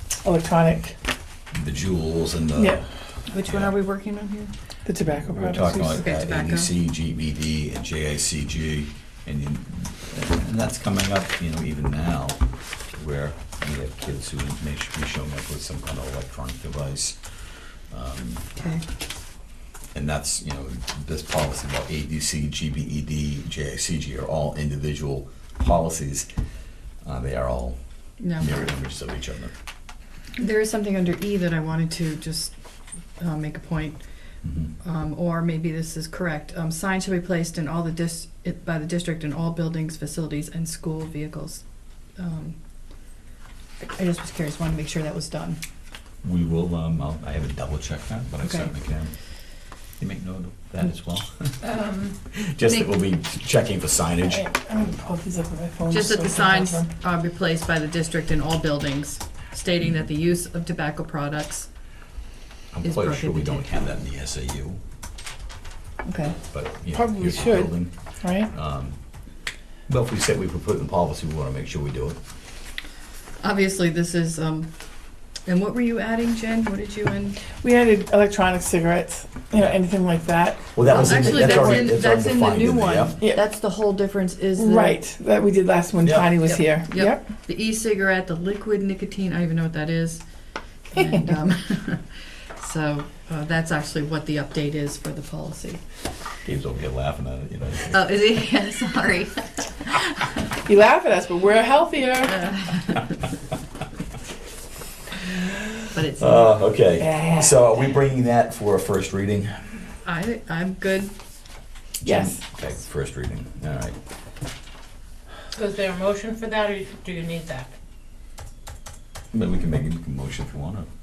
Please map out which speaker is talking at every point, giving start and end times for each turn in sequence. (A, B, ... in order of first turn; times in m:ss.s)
0:00.2-0:01.0 A
0:01.5-0:02.9 B
0:02.6-0:02.8 A
0:03.3-0:04.5 C
0:03.4-0:03.7 B
0:04.8-0:06.1 A
0:05.3-0:18.5 B
0:05.9-0:06.7 C
0:18.6-0:18.8 C
0:19.9-0:26.3 B
0:27.0-0:29.5 B
0:28.2-0:28.6 C
0:30.4-0:32.5 C
0:33.2-0:34.0 C
0:34.4-0:34.7 B
0:34.8-0:41.6 C
0:42.2-0:42.6 C
0:43.8-0:45.6 C
0:46.2-0:49.1 B
0:48.4-0:48.7 C
0:50.0-0:51.7 B
0:51.6-0:52.2 D
0:52.3-0:54.5 B
0:52.7-0:52.9 C
0:54.3-0:56.9 A
0:55.9-1:01.7 C
1:02.7-1:04.8 B
1:02.8-1:03.7 C
1:06.1-1:06.4 C
1:06.5-1:07.9 B
1:06.9-1:08.5 A
1:08.4-1:09.0 B
1:09.9-1:12.2 B
1:13.4-1:14.7 C
1:15.4-1:17.4 C
1:17.5-1:21.9 A
1:20.7-1:23.2 B
1:20.9-1:25.0 C
1:23.2-1:23.4 A
1:24.6-1:27.3 A
1:26.0-1:26.3 B
1:26.4-1:30.2 C
1:30.9-1:35.8 C
1:36.4-1:38.0 B
1:37.9-1:40.5 C
1:40.6-1:42.6 A
1:42.3-1:43.1 C
1:45.9-1:46.6 C
1:46.2-1:49.9 B
1:47.0-1:47.6 A
1:50.0-1:51.1 C
1:52.0-1:54.0 B
1:52.0-1:52.4 A
1:55.5-1:57.7 D
1:59.3-2:00.9 B